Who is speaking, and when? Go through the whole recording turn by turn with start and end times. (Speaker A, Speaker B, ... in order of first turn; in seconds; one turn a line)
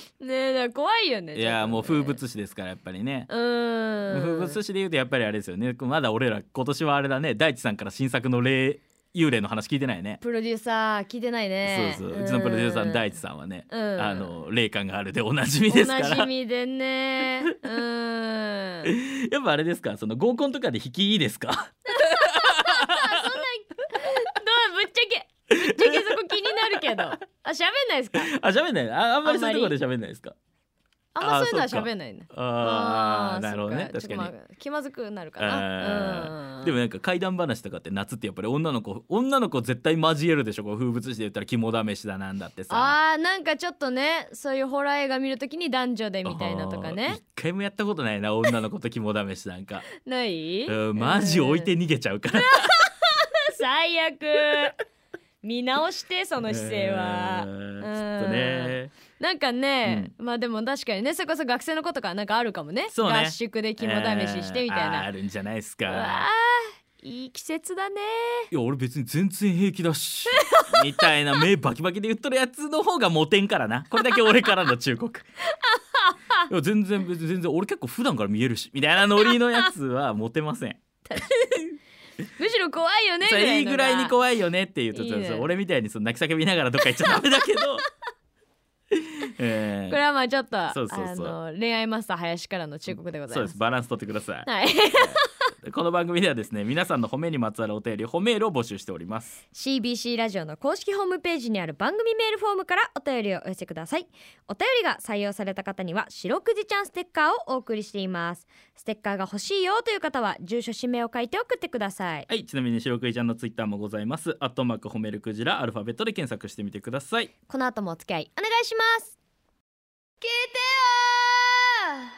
Speaker A: 0.2-2.2
Speaker B: 1.3-3.3
Speaker A: 3.3-4.6
Speaker B: 4.1-10.2
Speaker A: 10.2-13.2
Speaker B: 11.6-16.3
Speaker A: 13.7-14.3
Speaker A: 15.7-18.9
Speaker B: 18.8-23.3
Speaker A: 22.0-28.3
Speaker B: 25.5-27.0
Speaker B: 28.1-30.3
Speaker A: 29.2-29.8
Speaker A: 31.1-36.8
Speaker B: 31.2-34.3
Speaker B: 35.4-43.0
Speaker A: 42.7-47.2
Speaker B: 46.2-49.9
Speaker A: 50.0-51.7
Speaker B: 50.7-52.9
Speaker A: 52.4-54.8
Speaker A: 55.4-65.1
Speaker B: 56.4-58.9
Speaker B: 59.8-60.1
Speaker B: 62.9-66.3
Speaker A: 65.8-68.5
Speaker B: 68.5-75.2
Speaker A: 70.3-71.4
Speaker A: 75.6-76.4
Speaker B: 76.5-80.8
Speaker A: 79.3-79.7
Speaker A: 81.1-81.7
Speaker A: 82.2-84.2
Speaker B: 83.2-87.8
Speaker A: 84.9-85.5
Speaker B: 88.9-90.0
Speaker A: 89.9-93.6
Speaker B: 90.7-91.3
Speaker B: 93.3-99.3
Speaker A: 94.5-95.3
Speaker A: 99.5-112.3
Speaker B: 112.3-117.3
Speaker A: 117.5-119.2
Speaker A: 120.2-122.1